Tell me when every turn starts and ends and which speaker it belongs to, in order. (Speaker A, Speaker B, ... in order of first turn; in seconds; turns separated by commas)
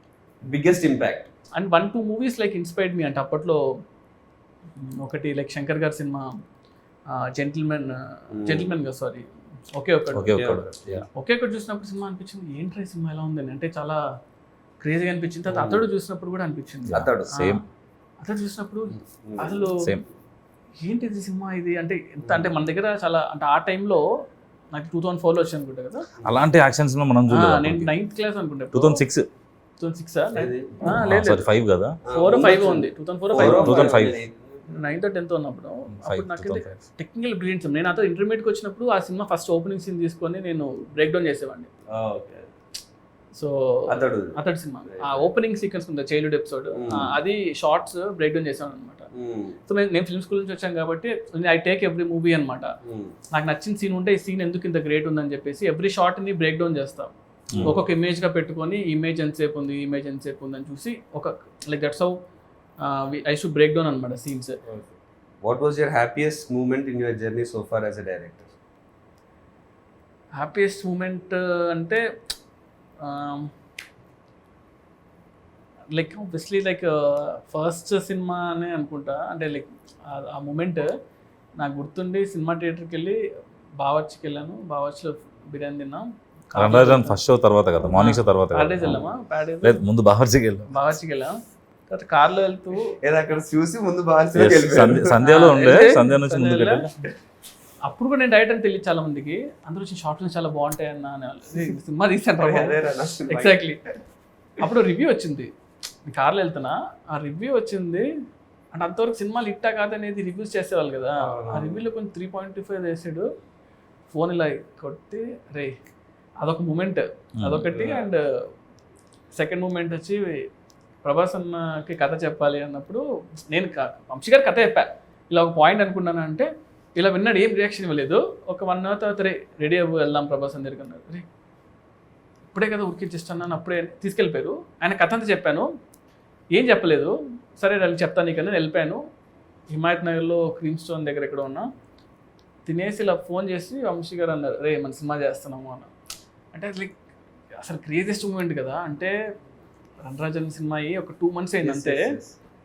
Speaker A: 0.4-1.3, Speaker B: 1.5-3.6, Speaker B: 4.8-6.3, Speaker B: 7.1-10.6, Speaker A: 8.3-8.8, Speaker C: 10.1-11.0, Speaker A: 10.3-11.0, Speaker B: 11.1-14.0, Speaker B: 14.8-17.6, Speaker A: 15.5-15.8, Speaker C: 16.9-17.6, Speaker A: 16.9-17.4, Speaker B: 18.2-19.9, Speaker A: 18.9-19.7, Speaker B: 20.8-24.0, Speaker A: 22.2-22.5, Speaker B: 24.7-26.1, Speaker C: 26.2-27.9, Speaker B: 27.3-29.0, Speaker C: 28.7-29.3, Speaker B: 29.8-34.1, Speaker A: 30.3-30.9, Speaker C: 30.9-32.0, Speaker A: 32.0-34.7, Speaker C: 33.3-34.2, Speaker B: 34.7-41.7, Speaker C: 35.9-36.8, Speaker A: 41.9-42.5, Speaker B: 43.3-49.1, Speaker A: 43.9-45.3, Speaker A: 46.7-47.2, Speaker A: 49.1-49.6, Speaker B: 49.6-52.7, Speaker A: 52.8-53.1, Speaker B: 53.3-62.2, Speaker C: 57.5-57.8, Speaker A: 57.5-57.8, Speaker B: 62.8-64.6, Speaker A: 65.4-68.5, Speaker B: 70.4-72.0, Speaker B: 73.0-73.5, Speaker B: 75.9-80.9, Speaker B: 81.6-83.2, Speaker B: 83.8-87.2, Speaker C: 86.5-89.1, Speaker B: 87.8-89.8, Speaker C: 89.6-90.8, Speaker B: 90.7-91.3, Speaker B: 91.9-92.9, Speaker A: 93.0-96.0, Speaker C: 94.3-96.9, Speaker B: 95.2-96.9, Speaker B: 97.8-103.8, Speaker A: 102.4-103.6, Speaker B: 104.6-105.5, Speaker B: 106.0-108.1, Speaker B: 108.7-113.3, Speaker A: 111.2-111.8, Speaker B: 114.1-115.7, Speaker B: 116.4-118.2, Speaker C: 117.4-117.7, Speaker A: 117.7-118.1, Speaker B: 119.3-120.5, Speaker B: 121.0-131.2, Speaker B: 132.5-135.7, Speaker B: 136.6-139.0, Speaker B: 139.7-141.7, Speaker B: 142.7-145.9, Speaker B: 146.5-147.0, Speaker B: 147.6-149.1, Speaker B: 150.0-152.1, Speaker A: 151.6-152.3